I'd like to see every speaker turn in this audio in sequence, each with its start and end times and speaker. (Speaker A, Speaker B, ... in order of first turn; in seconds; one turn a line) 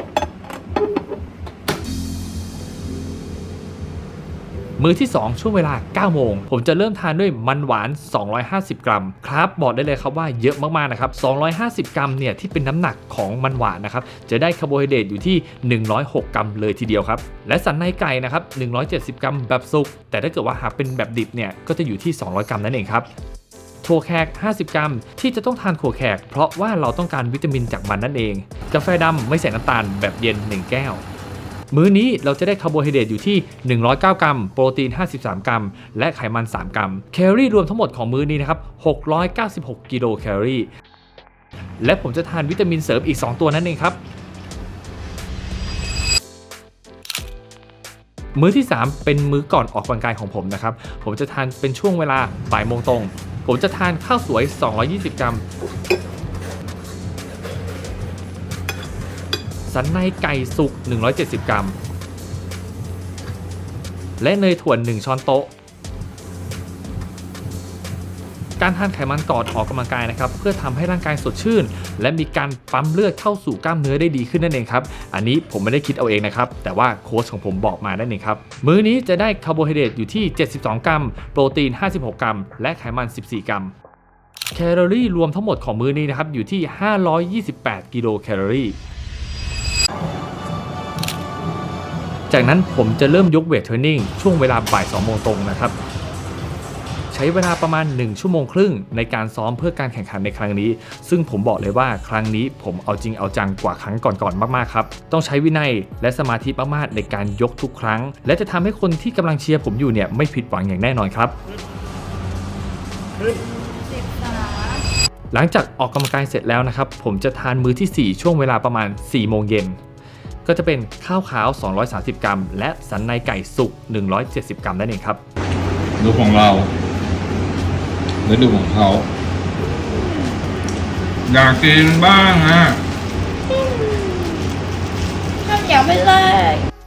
Speaker A: 4.8-23.1
Speaker A: 23.8-31.0
Speaker A: 31.7-40.7
Speaker A: 41.8-44.0
Speaker A: 48.4-55.4
Speaker A: 59.7-61.8
Speaker A: 64.2-65.5
Speaker A: 68.6-83.7
Speaker A: 84.5-88.8
Speaker A: 92.3-95.8
Speaker A: 97.1-111.3
Speaker B: 113.3-114.8
Speaker A: 115.3-119.8
Speaker A: 120.5-125.2
Speaker C: 126.0-126.7
Speaker C: 128.2-129.1
Speaker B: 129.8-130.4
Speaker C: 131.3-132.8
Speaker B: 133.5-134.5
Speaker B: 135.4-136.7